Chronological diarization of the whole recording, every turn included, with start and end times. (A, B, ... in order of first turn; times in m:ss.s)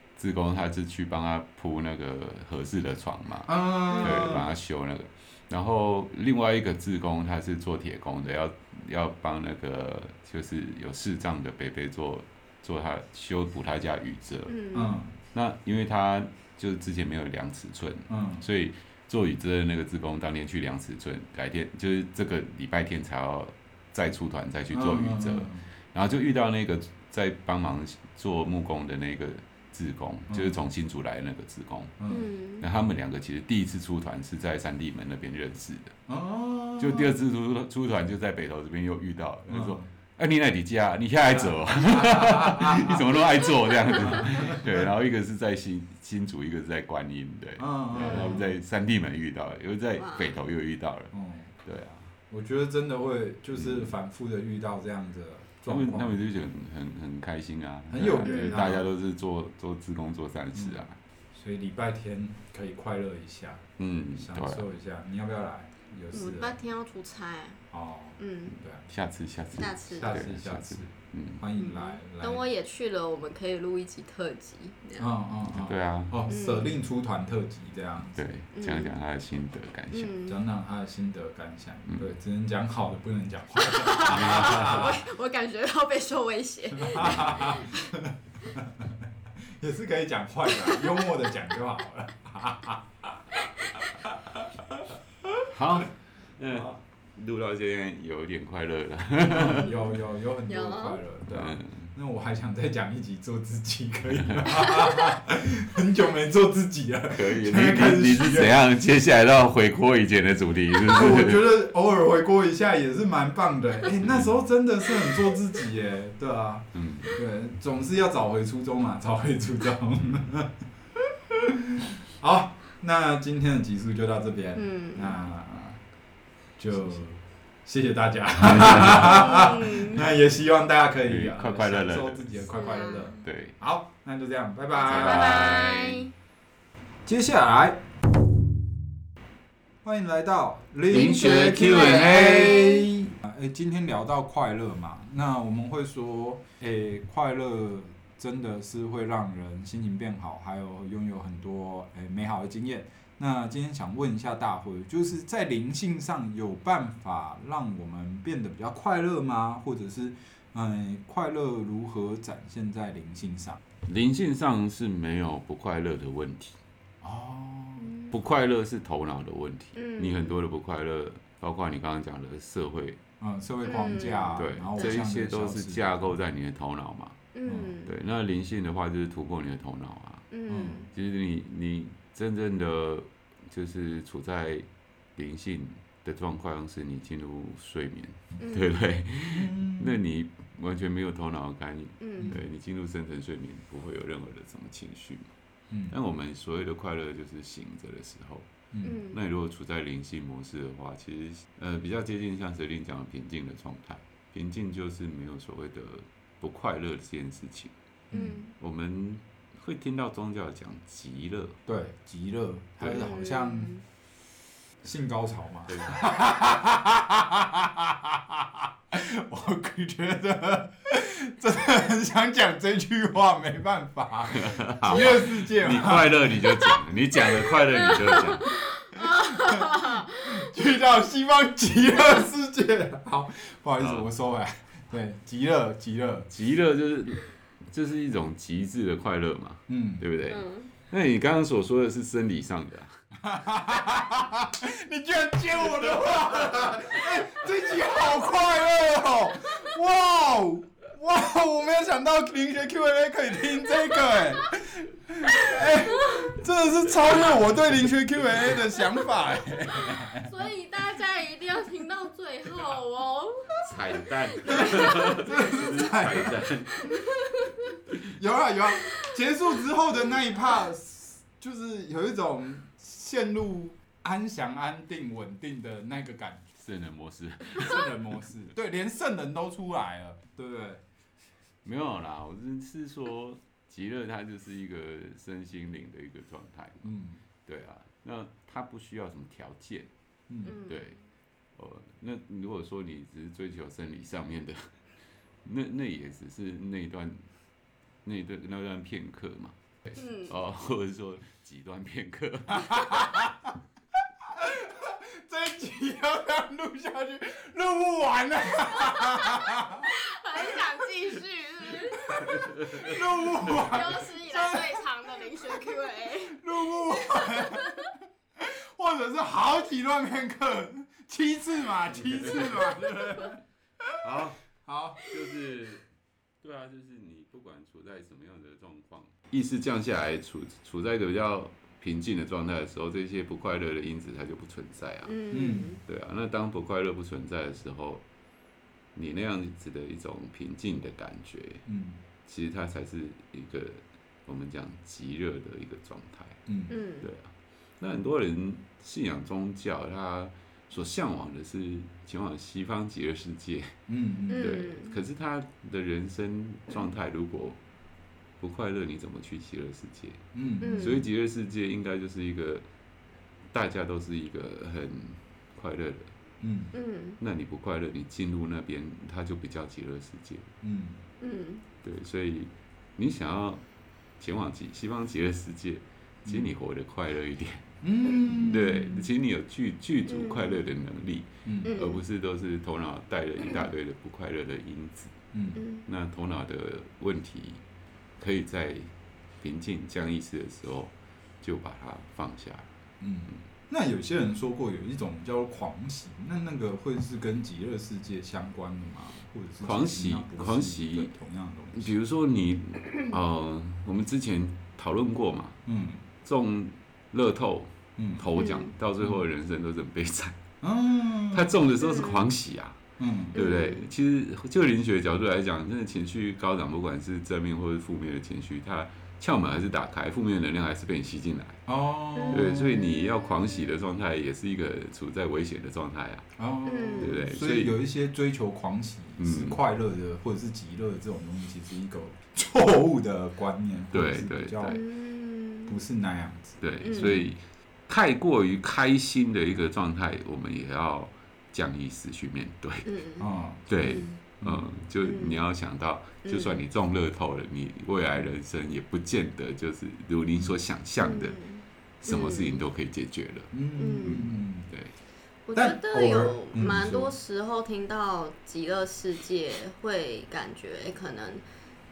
0:00.2-0:14.6 A
0:03.5-0:04.5 B
0:14.5-0:15.0 C
0:14.7-0:15.2 B
0:15.3-0:32.0 A
0:18.1-0:18.4 B
0:24.7-0:25.6 B
0:32.1-0:32.6 C
0:32.6-0:36.0 A
0:36.1-0:37.2 B
0:36.8-0:52.1 A
0:39.5-0:39.8 B
0:42.2-0:43.0 B
0:44.0-0:44.9 B
0:47.6-0:48.4 B
0:48.1-0:48.4 C
0:50.0-0:50.4 C
0:51.1-0:51.5 B
0:52.3-0:56.2 B
0:55.7-1:01.0 A
0:57.9-0:58.9 B
0:58.3-0:58.6 C
1:00.6-1:06.6 B
1:03.8-1:04.7 A
1:06.1-1:07.6 C
1:07.7-1:08.8 B
1:08.2-1:08.6 C
1:08.9-1:11.4 A
1:09.6-1:10.2 C
1:10.0-1:12.4 B
1:11.6-1:15.1 C
1:15.0-1:18.2 B
1:15.6-1:16.2 A
1:16.3-1:16.7 C
1:18.2-1:20.2 A
1:18.6-1:18.9 C
1:19.9-1:20.4 C
1:20.3-1:25.0 B
1:23.6-1:27.9 C
1:26.8-1:35.4 B
1:35.5-1:39.7 A
1:39.3-1:48.6 B
1:40.5-1:41.0 C
1:41.3-1:41.9 A
1:47.1-1:51.4 A
1:50.9-2:05.8 B
1:54.0-1:54.3 A
1:56.8-1:57.2 A
2:04.6-2:05.2 C
2:06.6-2:15.5 B
2:09.0-2:10.0 C
2:11.0-2:12.5 A
2:12.6-2:13.2 C
2:13.2-2:13.6 A
2:14.7-2:16.1 C
2:14.8-2:16.1 A
2:17.1-2:17.8 B
2:19.8-2:43.6 B
2:20.9-2:22.6 A
2:20.9-2:22.9 C
2:43.8-2:46.6 A
2:47.0-2:47.9 B
2:48.1-2:53.0 A
2:49.8-2:50.1 C
2:53.2-2:56.1 B
2:53.6-2:54.4 C
2:54.4-2:57.2 A
2:57.4-2:57.9 C
2:57.5-2:57.8 B
2:57.8-3:00.3 A
3:00.3-3:00.9 C
3:00.5-3:00.9 B
3:00.9-3:15.3 A
3:09.3-3:10.0 B
3:12.0-3:12.3 C
3:15.9-3:18.5 A
3:18.7-3:19.0 B
3:18.8-3:19.2 C
3:19.1-3:27.7 A
3:28.1-3:28.4 B
3:28.1-3:28.5 C
3:28.6-3:31.6 A
3:31.7-3:33.8 B
3:33.0-3:33.8 C
3:34.8-3:46.8 B
3:35.7-3:36.1 A
3:44.4-3:48.6 A
3:47.5-3:47.9 B
3:47.9-3:50.3 C
3:49.0-3:56.3 B
3:53.8-3:54.1 A
3:56.3-4:03.0 A
3:59.7-4:00.0 B
4:00.3-4:00.7 C
4:03.2-4:20.3 B
4:15.6-4:16.3 C
4:19.7-4:25.3 C
4:23.5-4:26.9 A
4:24.6-4:26.4 B
4:26.7-4:27.7 C
4:28.0-4:36.5 B
4:36.6-4:38.2 A
4:37.5-4:40.8 B
4:41.6-4:46.8 A
4:46.8-4:47.2 B
4:47.5-4:49.9 A
4:50.3-4:50.6 B
4:50.5-4:50.7 C
4:50.5-4:51.0 A
4:51.6-4:54.7 A
4:55.4-4:57.3 A
4:58.0-5:03.3 A
5:00.0-5:00.3 C
5:02.7-5:03.3 B
5:04.2-5:10.8 B
5:08.9-5:12.7 C
5:11.7-5:14.9 B
5:13.4-5:17.8 C
5:16.3-5:24.0 B
5:24.0-5:25.8 A
5:24.6-5:25.1 B
5:26.4-5:35.2 A
5:35.0-5:35.8 C
5:35.3-5:35.7 B
5:35.8-5:38.0 A
5:39.0-5:41.6 A
5:41.7-5:42.0 B
5:42.3-5:46.4 A
5:46.5-5:46.8 B
5:46.7-5:47.0 C
5:47.0-5:53.8 A
5:53.9-5:54.6 B
5:54.3-5:57.6 A
5:54.3-5:55.0 C
5:58.4-6:02.6 A
6:00.3-6:01.0 B
6:00.6-6:01.0 C
6:03.5-6:06.1 A
6:06.4-6:06.7 B
6:06.7-6:07.2 C
6:07.2-6:10.5 A
6:10.6-6:11.0 B
6:11.2-6:11.6 C
6:11.8-6:13.6 A
6:14.2-6:17.7 A
6:17.8-6:19.1 B
6:18.2-6:25.2 A
6:20.1-6:20.6 C
6:21.5-6:21.7 B
6:21.7-6:22.0 C
6:25.3-6:25.6 B
6:25.8-6:27.6 A
6:28.2-6:32.7 A
6:33.0-6:41.9 B
6:39.6-6:41.1 A
6:41.7-6:45.6 A
6:45.7-6:46.0 B
6:46.2-6:50.4 A
6:48.0-6:48.2 B
6:48.4-6:48.7 C
6:50.6-6:51.6 B
6:51.3-6:52.8 A
6:51.9-6:52.2 C
6:53.0-6:53.4 B
6:53.3-7:01.6 A
6:53.3-6:53.8 C
7:01.7-7:02.6 B
7:02.3-7:06.3 A
7:06.4-7:14.8 B
7:06.7-7:07.1 C
7:07.0-7:07.7 A
7:09.2-7:09.6 A
7:13.9-7:14.8 A
7:14.6-7:15.7 C
7:15.7-7:17.3 B
7:16.6-7:23.0 A
7:16.8-7:17.2 C
7:22.9-7:23.2 C
7:23.2-7:23.6 B
7:23.7-7:31.4 A
7:23.8-7:24.2 C
7:24.4-7:24.7 B
7:31.0-7:32.6 C
7:32.0-7:33.5 A
7:33.5-7:34.7 B
7:33.8-7:34.3 C
7:34.0-7:34.9 A
7:35.5-7:41.4 C
7:35.6-7:37.1 B